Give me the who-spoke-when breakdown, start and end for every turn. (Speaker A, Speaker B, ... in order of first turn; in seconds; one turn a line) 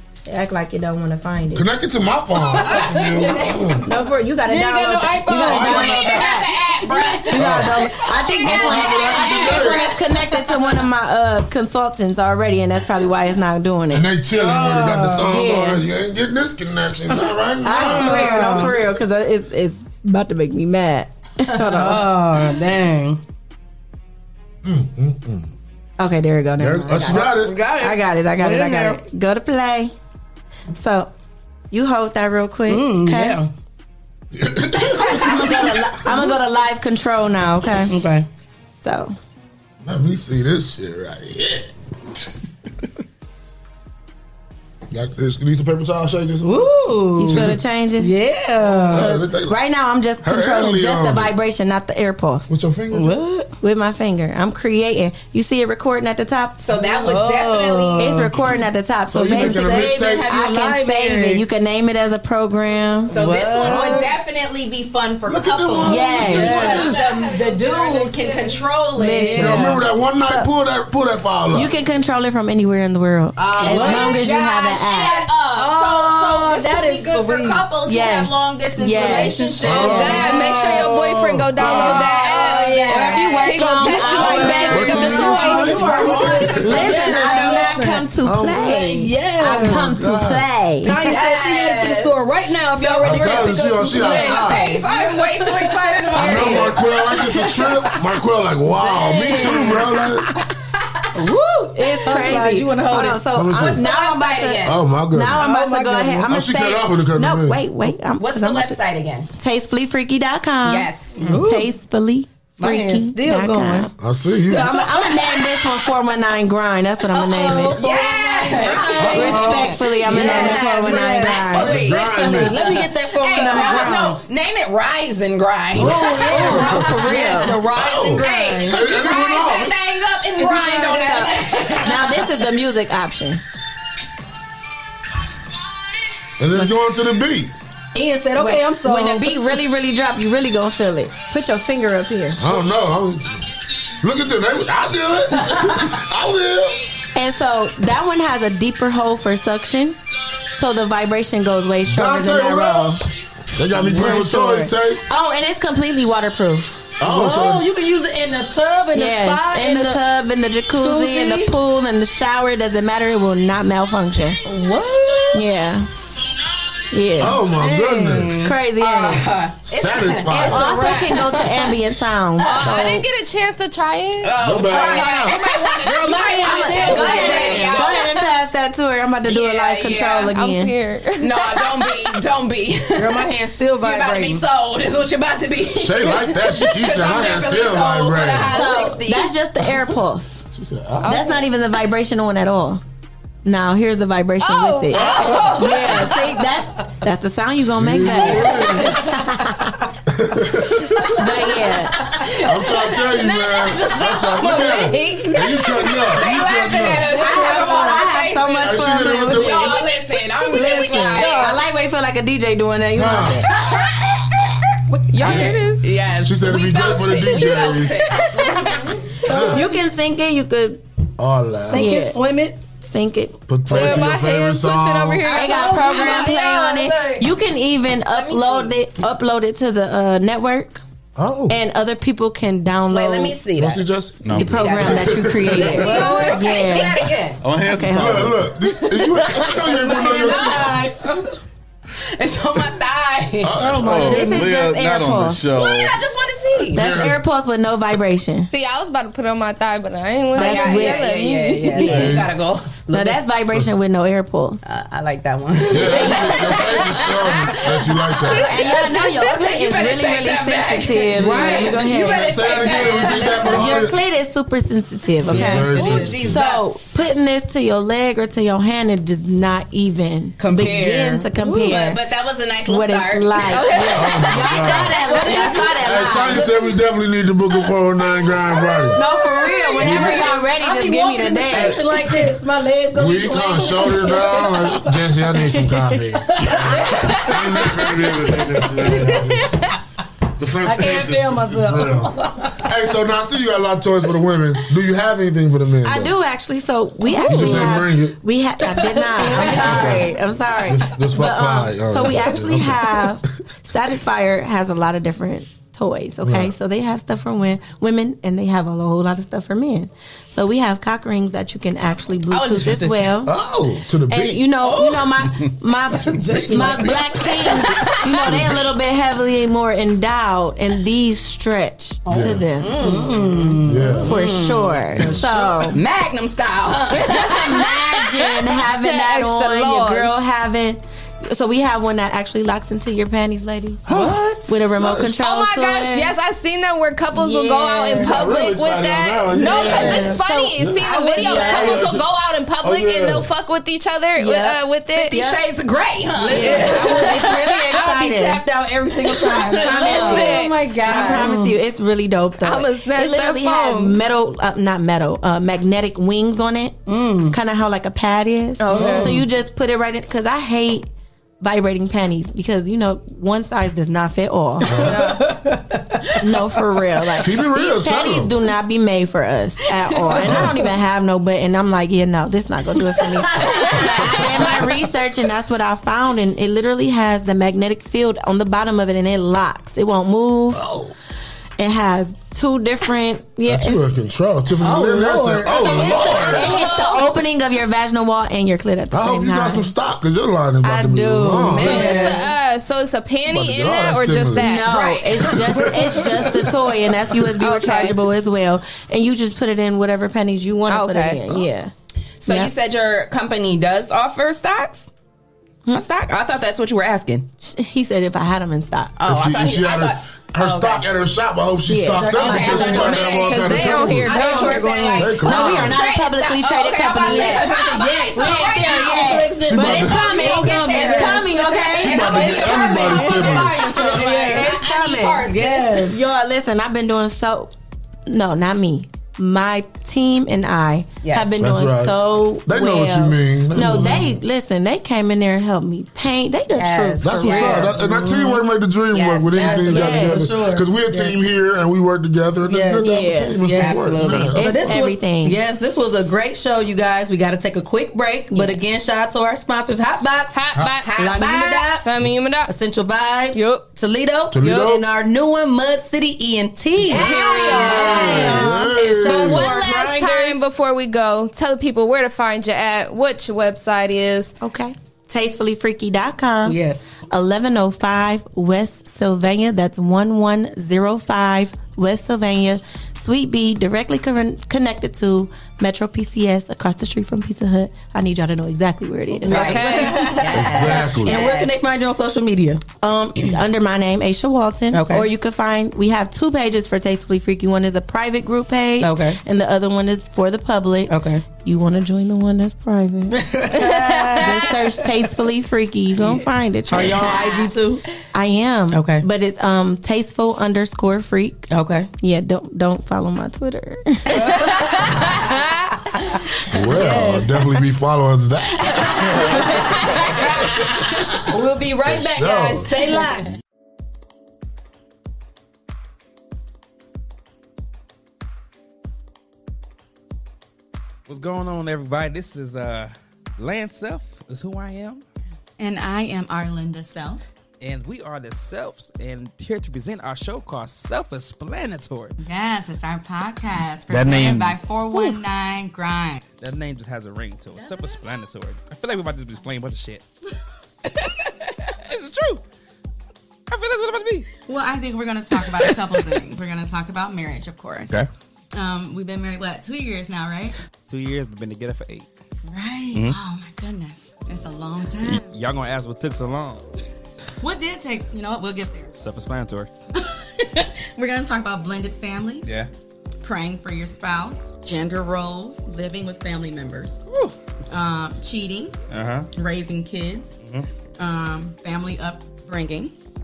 Speaker A: 0.3-1.6
Speaker B: 1.5-3.9
Speaker C: 2.5-3.4
Speaker D: 2.6-3.7
Speaker A: 3.8-6.5
Speaker C: 4.4-6.2
Speaker B: 5.4-7.9
Speaker D: 5.9-7.6
Speaker A: 7.3-14.1
Speaker D: 8.2-9.7
Speaker B: 8.4-9.9
Speaker B: 13.9-18.7
Speaker C: 14.3-15.4
Speaker A: 15.1-15.8
Speaker A: 17.6-22.1
Speaker C: 17.7-18.8
Speaker C: 21.5-23.2
Speaker B: 24.6-25.5
Speaker A: 26.0-29.9
Speaker B: 26.6-27.6
Speaker C: 27.1-29.0
Speaker A: 30.7-31.1
Speaker A: 31.7-33.4
Speaker C: 32.7-33.5
Speaker B: 34.3-35.6
Speaker A: 35.0-38.0
Speaker C: 37.9-38.3
Speaker A: 38.8-39.1
Speaker B: 39.8-41.7
Speaker B: 44.9-46.7
Speaker C: 46.4-49.1
Speaker A: 47.2-48.1
Speaker B: 47.3-47.5
Speaker A: 48.8-52.5
Speaker B: 48.9-49.6
Speaker B: 50.2-51.3
Speaker B: 52.5-53.1
Speaker C: 52.9-53.5
Speaker A: 53.6-56.6
Speaker D: 56.6-58.1
Speaker C: 56.7-58.5
Speaker A: 58.0-63.2
Speaker B: 59.1-60.3
Speaker C: 59.2-61.4
Speaker D: 59.6-59.9
Speaker C: 63.1-64.2
Speaker D: 63.1-69.5
Speaker B: 65.2-67.0
Speaker A: 65.8-66.8
Speaker C: 66.2-67.4
Speaker A: 69.0-70.5
Speaker C: 69.0-69.7
Speaker B: 69.3-71.7
Speaker A: 71.5-75.3
Speaker D: 73.3-80.6
Speaker C: 73.6-74.2
Speaker C: 75.5-77.7
Speaker A: 77.8-80.1
Speaker C: 78.9-83.5
Speaker B: 79.6-80.3
Speaker E: 79.9-82.8
Speaker D: 81.6-87.8
Speaker A: 82.8-91.0
Speaker E: 83.4-85.6
Speaker C: 84.1-88.1
Speaker B: 84.7-87.0
Speaker B: 88.2-88.9
Speaker C: 88.7-89.9
Speaker B: 89.4-90.5
Speaker C: 90.8-97.7
Speaker D: 90.8-92.1
Speaker D: 92.8-93.4
Speaker B: 93.0-94.7
Speaker D: 93.9-97.3
Speaker B: 96.1-100.3
Speaker D: 98.9-99.8
Speaker C: 98.9-99.9
Speaker C: 101.1-103.2
Speaker A: 101.7-108.8
Speaker B: 103.3-103.9
Speaker D: 103.5-104.8
Speaker B: 104.6-105.5
Speaker C: 105.4-106.3
Speaker B: 106.2-107.6
Speaker D: 108.2-109.3
Speaker A: 109.4-117.9
Speaker D: 110.6-111.4
Speaker C: 111.2-111.7
Speaker C: 112.6-113.9
Speaker B: 114.0-114.8
Speaker C: 114.6-115.6
Speaker C: 117.0-124.2
Speaker D: 117.7-127.5
Speaker A: 118.5-124.1
Speaker B: 120.1-120.7
Speaker B: 121.5-122.5
Speaker B: 125.7-126.9
Speaker A: 125.8-127.6
Speaker C: 125.8-128.8
Speaker B: 127.6-129.8
Speaker D: 128.1-132.1
Speaker C: 130.4-131.2
Speaker A: 130.4-133.4
Speaker B: 136.4-137.5
Speaker C: 137.9-139.5
Speaker A: 138.3-142.4
Speaker B: 142.4-143.5
Speaker B: 144.0-146.8
Speaker A: 147.2-150.0
Speaker A: 150.5-153.0
Speaker B: 151.8-153.0
Speaker B: 153.5-155.0
Speaker A: 153.8-156.8
Speaker C: 153.9-154.2
Speaker B: 157.0-157.7
Speaker C: 157.0-160.0
Speaker A: 158.9-164.4
Speaker C: 160.7-161.6
Speaker C: 164.4-165.4
Speaker A: 165.3-165.9
Speaker A: 166.9-167.4
Speaker B: 167.2-168.4
Speaker C: 167.5-168.5
Speaker A: 168.1-169.3
Speaker D: 168.8-171.5
Speaker B: 169.6-170.7
Speaker A: 170.3-173.1
Speaker D: 172.4-172.9
Speaker E: 172.4-174.4
Speaker D: 174.2-178.1
Speaker B: 174.4-175.4
Speaker C: 175.8-177.8
Speaker A: 176.4-180.7
Speaker D: 179.3-180.3
Speaker E: 180.2-182.1
Speaker D: 181.2-183.3
Speaker C: 182.9-184.4
Speaker D: 183.8-189.3
Speaker B: 185.7-188.7
Speaker A: 188.5-190.4
Speaker B: 190.5-191.2
Speaker A: 191.0-192.8
Speaker A: 193.4-199.6
Speaker D: 194.5-195.8
Speaker B: 194.9-195.7
Speaker B: 197.8-199.0
Speaker C: 198.4-199.0
Speaker B: 200.1-201.1
Speaker A: 201.1-202.1
Speaker D: 202.1-202.8
Speaker B: 202.4-207.2
Speaker E: 203.2-203.8
Speaker D: 203.8-208.7
Speaker C: 207.0-208.1
Speaker A: 207.2-209.8
Speaker B: 208.5-209.8
Speaker D: 209.3-211.6
Speaker A: 210.4-213.5
Speaker B: 212.9-213.4
Speaker C: 214.9-215.6
Speaker E: 215.1-215.8
Speaker D: 215.2-219.1
Speaker B: 216.2-218.1
Speaker C: 218.2-218.4
Speaker C: 219.2-219.8
Speaker B: 219.2-219.6
Speaker A: 219.3-220.8
Speaker B: 221.2-222.0
Speaker C: 221.6-222.6
Speaker A: 221.7-222.2
Speaker A: 222.7-223.9
Speaker B: 223.5-225.4
Speaker E: 223.7-225.5
Speaker A: 225.3-230.8
Speaker D: 225.3-227.2
Speaker C: 225.6-225.8
Speaker D: 228.1-228.7
Speaker B: 231.2-231.6
Speaker A: 231.5-233.4
Speaker D: 232.9-237.4
Speaker B: 233.6-236.0
Speaker F: 234.2-234.8
Speaker A: 234.3-237.0
Speaker F: 237.4-238.5
Speaker A: 237.6-238.2
Speaker B: 237.9-240.9
Speaker D: 239.0-241.0
Speaker D: 242.2-243.6
Speaker B: 243.4-244.3
Speaker F: 243.6-246.0
Speaker A: 243.7-245.5
Speaker D: 245.5-246.8
Speaker B: 246.7-247.2
Speaker A: 246.7-248.5
Speaker E: 248.5-251.8
Speaker A: 250.3-251.1
Speaker D: 250.3-253.2
Speaker A: 251.7-252.2
Speaker B: 251.8-252.3
Speaker A: 252.9-254.6
Speaker D: 254.6-263.8
Speaker B: 255.7-258.5
Speaker A: 255.8-256.8
Speaker A: 258.3-272.0
Speaker C: 261.2-261.7
Speaker B: 262.0-264.0
Speaker B: 265.2-266.4
Speaker D: 265.4-267.0
Speaker C: 265.4-266.1
Speaker C: 270.4-271.2
Speaker D: 270.4-270.7
Speaker D: 271.4-274.2
Speaker A: 272.6-276.5
Speaker B: 273.9-275.0
Speaker D: 275.2-275.5
Speaker C: 275.2-275.7
Speaker B: 275.8-279.0
Speaker A: 278.9-282.2
Speaker C: 279.3-285.0
Speaker B: 279.8-280.2
Speaker B: 281.5-282.3
Speaker B: 282.9-289.6
Speaker C: 286.2-287.3
Speaker C: 288.1-289.4
Speaker B: 290.4-296.1
Speaker C: 290.6-292.6
Speaker A: 295.8-313.3
Speaker C: 297.1-297.4
Speaker B: 297.2-298.2
Speaker C: 299.0-300.0
Speaker B: 299.3-300.1
Speaker B: 300.6-303.1
Speaker B: 306.2-306.5
Speaker D: 312.3-312.8
Speaker C: 312.4-312.9
Speaker B: 313.2-314.4
Speaker A: 314.1-322.9
Speaker C: 316.0-317.3
Speaker B: 322.1-322.4
Speaker D: 322.1-323.4
Speaker C: 322.6-323.9
Speaker B: 323.6-324.2
Speaker A: 323.9-325.8
Speaker D: 324.1-324.9
Speaker B: 324.9-325.4
Speaker D: 325.6-327.6
Speaker A: 327.0-336.1
Speaker E: 328.5-330.3
Speaker B: 333.9-335.1
Speaker C: 333.9-334.4
Speaker E: 335.2-345.3
Speaker A: 337.1-338.1
Speaker B: 337.9-342.1
Speaker C: 339.4-340.2
Speaker A: 339.5-340.2
Speaker C: 341.0-341.8
Speaker B: 342.6-343.3
Speaker D: 344.2-347.3
Speaker C: 346.2-351.6
Speaker A: 346.2-348.4
Speaker E: 349.1-351.0
Speaker D: 349.4-350.2
Speaker A: 349.4-360.9
Speaker D: 350.9-351.2
Speaker E: 352.4-354.0
Speaker C: 356.9-357.4
Speaker C: 358.6-359.2
Speaker D: 358.7-359.1
Speaker A: 361.4-365.1
Speaker B: 364.6-365.1
Speaker C: 364.7-365.8
Speaker A: 366.2-380.6
Speaker B: 367.2-368.3
Speaker B: 370.2-370.5
Speaker B: 380.5-380.9
Speaker A: 381.6-383.8
Speaker B: 383.4-386.6
Speaker C: 384.6-385.7
Speaker D: 385.4-387.0
Speaker E: 385.5-387.0
Speaker A: 386.2-389.7
Speaker B: 388.9-392.2
Speaker A: 390.6-392.1
Speaker C: 391.4-392.3
Speaker E: 391.6-395.0
Speaker B: 393.3-394.6
Speaker A: 394.3-401.7
Speaker D: 394.7-395.0
Speaker B: 395.4-396.2
Speaker E: 397.4-398.0
Speaker E: 400.7-401.2
Speaker D: 402.2-404.9
Speaker D: 405.7-407.3
Speaker A: 407.4-408.9
Speaker D: 409.0-410.9
Speaker B: 409.0-414.2
Speaker A: 411.7-412.9
Speaker C: 411.9-413.0
Speaker D: 412.1-421.3
Speaker E: 412.9-414.6
Speaker A: 414.1-427.5
Speaker C: 414.2-415.1
Speaker B: 414.9-415.8
Speaker C: 418.6-422.4
Speaker B: 419.4-420.2
Speaker B: 421.7-423.8
Speaker D: 421.8-425.8
Speaker C: 423.7-424.5
Speaker C: 425.3-426.0
Speaker A: 428.1-438.2
Speaker D: 431.0-431.3
Speaker B: 431.4-434.2
Speaker D: 436.6-437.8
Speaker B: 437.0-444.8
Speaker C: 437.6-438.2
Speaker D: 438.9-439.9
Speaker C: 439.4-441.1
Speaker A: 439.4-440.2
Speaker C: 442.4-450.4
Speaker A: 442.8-443.5
Speaker D: 443.5-444.4
Speaker A: 444.3-445.4
Speaker E: 450.3-452.5
Speaker D: 450.8-451.6
Speaker C: 450.9-451.9
Speaker C: 452.4-460.3
Speaker E: 453.3-453.7
Speaker B: 454.3-454.9
Speaker D: 456.8-458.4
Speaker E: 456.9-458.0
Speaker A: 457.5-458.9
Speaker B: 457.7-459.5
Speaker E: 459.0-464.3
Speaker A: 464.4-479.6
Speaker C: 466.4-466.9
Speaker C: 479.2-482.6
Speaker D: 479.2-481.6
Speaker E: 479.3-480.1
Speaker B: 480.3-481.2
Speaker A: 482.8-493.4
Speaker C: 484.7-485.1
Speaker C: 488.8-489.2
Speaker C: 490.9-491.2
Speaker C: 493.1-494.8
Speaker E: 493.8-494.1
Speaker A: 494.2-497.2
Speaker C: 496.7-497.8
Speaker A: 498.1-504.4
Speaker C: 498.7-499.1
Speaker C: 501.5-501.9
Speaker C: 504.2-505.1
Speaker B: 506.5-509.6
Speaker C: 506.6-507.3
Speaker C: 511.3-513.3
Speaker B: 511.8-512.7
Speaker G: 521.1-525.0
Speaker H: 525.6-527.2
Speaker G: 527.6-532.2
Speaker H: 532.2-536.2
Speaker G: 533.9-535.2
Speaker G: 536.4-540.0
Speaker G: 540.9-542.4
Speaker G: 543.5-544.3
Speaker H: 544.5-547.9
Speaker G: 545.3-546.2
Speaker H: 548.5-550.5
Speaker G: 550.9-552.1
Speaker H: 552.5-555.2
Speaker G: 552.9-553.2
Speaker G: 555.0-556.6
Speaker H: 557.4-558.9
Speaker G: 558.9-559.7
Speaker H: 561.0-562.5
Speaker G: 562.4-562.7
Speaker H: 563.2-566.9
Speaker G: 567.1-567.3
Speaker H: 567.7-568.7
Speaker G: 568.9-569.3
Speaker H: 569.4-570.3
Speaker G: 570.4-570.7
Speaker H: 571.0-572.9